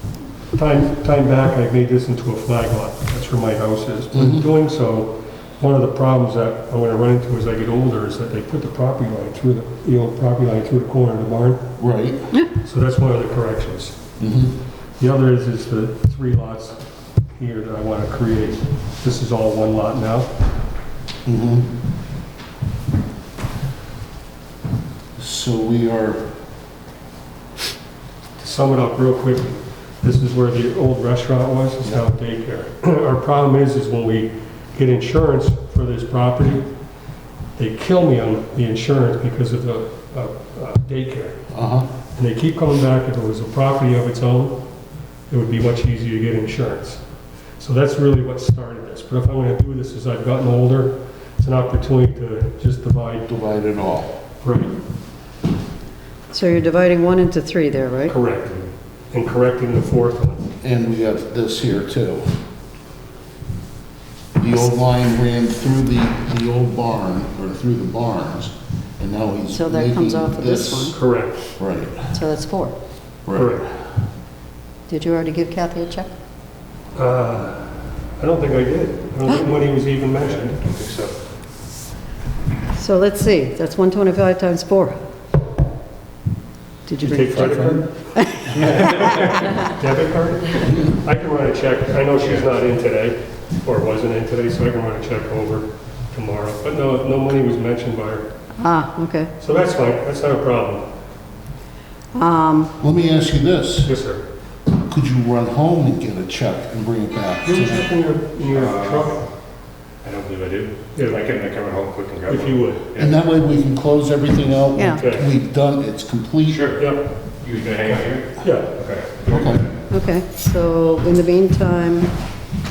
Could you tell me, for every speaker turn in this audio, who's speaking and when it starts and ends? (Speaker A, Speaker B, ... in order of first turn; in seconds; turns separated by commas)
Speaker A: 0.5-11.7, Speaker B: 4.1-4.5, Speaker B: 11.8-12.3, Speaker A: 12.6-14.0, Speaker B: 14.2-14.6, Speaker A: 15.0-20.3, Speaker B: 21.2-21.7, Speaker B: 25.2-26.2, Speaker A: 28.4-36.7, Speaker A: 37.6-41.4, Speaker B: 41.5-41.9, Speaker A: 42.1-44.6, Speaker A: 45.3-47.0, Speaker A: 47.6-53.3, Speaker B: 53.2-54.1, Speaker A: 54.4-54.8, Speaker C: 56.3-58.1, Speaker A: 58.1-60.5, Speaker B: 60.6-62.3, Speaker B: 64.4-71.0, Speaker C: 69.5-71.0, Speaker A: 70.9-71.5, Speaker B: 71.6-72.1, Speaker C: 72.1-72.7, Speaker B: 73.2-73.7, Speaker A: 73.3-73.6, Speaker C: 74.9-76.1, Speaker A: 77.0-80.6, Speaker D: 80.6-81.1, Speaker C: 82.7-85.0, Speaker C: 86.8-88.7, Speaker A: 87.0-87.9, Speaker A: 88.5-98.2, Speaker C: 98.6-99.3, Speaker A: 99.4-100.8, Speaker C: 102.1-102.7, Speaker B: 102.8-103.9, Speaker A: 103.8-104.2, Speaker B: 104.7-107.9, Speaker A: 107.4-109.2, Speaker D: 108.5-109.1, Speaker D: 110.0-113.1, Speaker A: 110.9-111.3, Speaker A: 112.3-112.9, Speaker B: 113.0-116.8, Speaker C: 114.7-115.0, Speaker A: 114.9-115.3, Speaker D: 116.5-116.8, Speaker A: 116.8-117.1, Speaker D: 117.4-119.4, Speaker A: 118.4-118.8, Speaker B: 119.3-119.7, Speaker C: 119.9-122.1